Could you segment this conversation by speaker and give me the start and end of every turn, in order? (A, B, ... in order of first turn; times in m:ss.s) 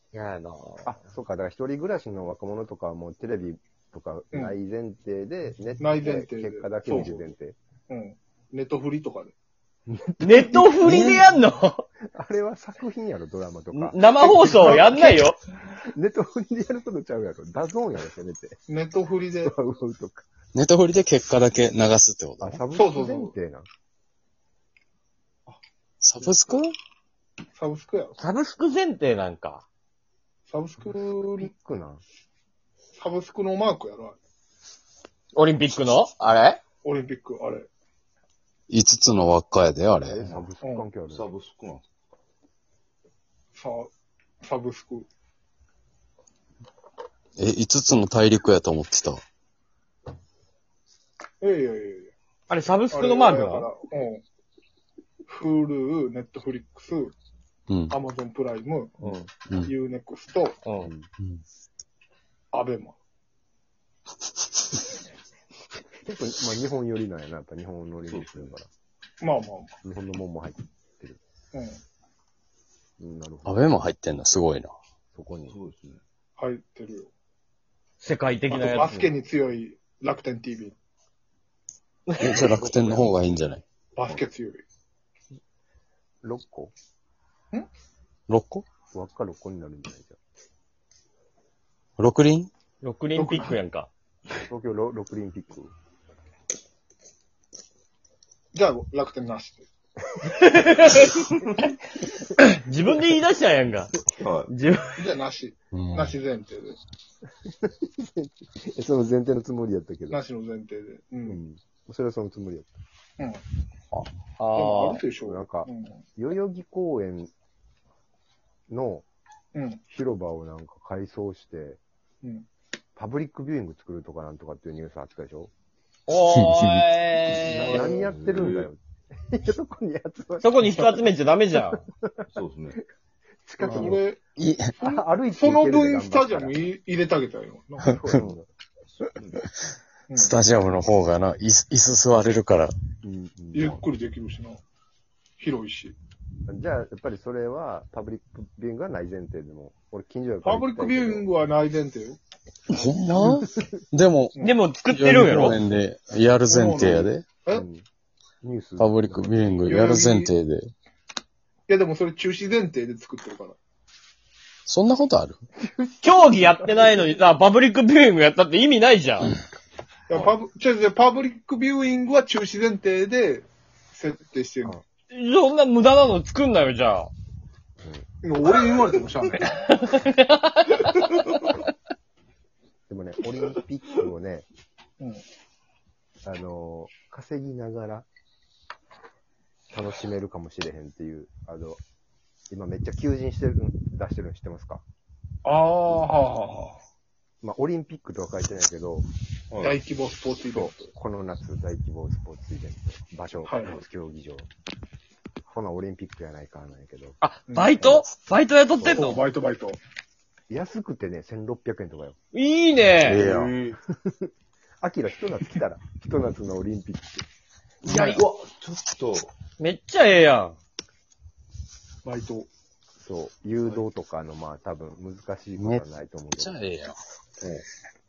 0:00.1-0:00.8 A
0:00.8-0:07.6 B
0:05.8-0:07.2 C
0:07.9-0:09.3 C
0:09.9-0:11.4 B
0:10.2-0:11.8 D
0:10.8-0:11.2 A
0:12.1-0:15.3 B
0:13.7-0:15.4 D
0:14.2-0:15.0 C
0:15.9-0:18.6 B
0:18.7-0:19.5 C
0:19.4-0:20.2 B
0:20.5-0:22.6 A
0:22.4-0:23.7 B
0:22.7-0:23.3 C
0:26.0-0:26.8 A
0:27.6-0:28.2 C
0:28.2-0:29.6 D
0:30.5-0:31.5 C
0:30.9-0:32.0 B
0:33.0-0:34.2 C
0:35.3-0:36.6 D
0:36.8-0:37.7 C
0:38.7-0:40.2 A
0:40.0-0:40.5 E
0:40.2-0:41.3 B
0:40.6-0:40.9 C
0:41.1-0:41.8 E
0:43.5-0:43.9 C
0:44.4-0:45.1 C
0:47.4-0:49.2 A
0:51.4-0:52.1 C
0:52.5-0:53.7 D
0:52.9-0:54.2 C
0:55.3-0:57.1 C
0:57.7-0:58.0 A
0:57.9-0:58.9 C
0:59.0-0:59.3 B
0:59.6-1:00.6 C
1:00.6-1:00.9 D
1:00.8-1:01.1 B
1:02.5-1:03.0 C
1:06.0-1:08.7 B
1:08.1-1:08.5 E
1:09.2-1:09.7 C
1:09.8-1:11.2 B
1:11.5-1:11.8 C
1:13.0-1:13.8 B
1:13.4-1:14.7 A
1:15.1-1:15.6 B
1:15.5-1:16.0 E
1:16.4-1:17.1 C
1:18.0-1:19.0 D
1:18.5-1:20.7 C
1:18.8-1:19.1 B
1:22.2-1:23.6 A
1:22.4-1:22.9 B
1:22.4-1:23.4 E
1:24.0-1:24.6 C
1:26.2-1:26.7 B
1:28.3-1:28.6 A
1:28.9-1:30.2 B
1:32.0-1:32.5 A
1:32.8-1:33.9 D
1:33.1-1:33.6 C
1:34.4-1:35.7 B
1:38.5-1:39.7 C
1:40.4-1:41.2 D
1:42.4-1:43.9 D
1:44.2-1:44.5 E
1:44.4-1:45.0 D
1:45.0-1:46.8 C
1:45.7-1:46.1 A
1:47.5-1:50.2 B
1:50.1-1:51.4 C
1:51.2-1:52.8 B
1:54.4-1:55.0 D
1:54.5-1:56.0 C
1:55.2-1:57.3 B
1:58.7-1:59.0 B
1:59.5-1:59.8 C
1:59.9-2:01.8 B
2:03.0-2:05.5 B
2:06.1-2:07.9 D
2:06.3-2:06.8 A
2:07.4-2:10.8 B
2:07.6-2:08.7 E
2:10.4-2:11.8 D
2:12.3-2:12.8 E
2:13.4-2:14.0 B
2:13.6-2:14.2 C
2:14.4-2:14.7 A
2:14.8-2:18.0 C
2:14.8-2:16.6 B
2:17.8-2:18.5 B
2:17.9-2:18.2 A
2:20.1-2:20.4 C
2:20.1-2:22.7 A
2:23.0-2:23.8 B
2:23.5-2:24.6 C
2:25.4-2:25.9 C
2:26.5-2:31.3 B
2:30.4-2:32.2 C
2:32.7-2:34.4 A
2:34.4-2:35.6 D
2:34.9-2:37.2 A
2:36.5-2:37.6 C
2:37.5-2:37.8 B
2:38.4-2:39.3 B
2:38.8-2:40.7 A
2:39.6-2:40.3 C
2:41.7-2:43.6 C
2:44.6-2:45.4 A
2:45.6-2:47.0 B
2:46.0-2:49.3 D
2:50.1-2:54.8 C
2:55.1-2:57.1 D
2:57.8-2:58.1 B
2:58.2-2:59.6 C
2:59.7-3:01.0 D
3:02.9-3:04.5 B
3:06.2-3:08.1 B
3:09.7-3:11.8 B
3:12.5-3:14.8 B
3:15.4-3:16.8 C
3:17.4-3:19.1 B
3:19.5-3:19.8 E
3:19.6-3:20.9 C
3:20.5-3:24.5 B
3:23.4-3:23.8 C
3:25.4-3:27.2 B
3:27.2-3:29.2 D
3:27.5-3:27.8 C
3:28.7-3:29.1 B
3:28.9-3:29.8 C
3:30.5-3:32.2 B
3:32.3-3:33.3 D
3:33.0-3:33.5 A
3:33.1-3:33.8 E
3:33.9-3:34.3 B
3:34.8-3:37.2 B
3:37.8-3:38.2 D
3:37.8-3:39.3 E
3:39.6-3:40.6 D
3:42.0-3:42.5 C
3:43.0-3:46.5 B
3:45.6-3:45.8 A
3:46.4-3:46.9 A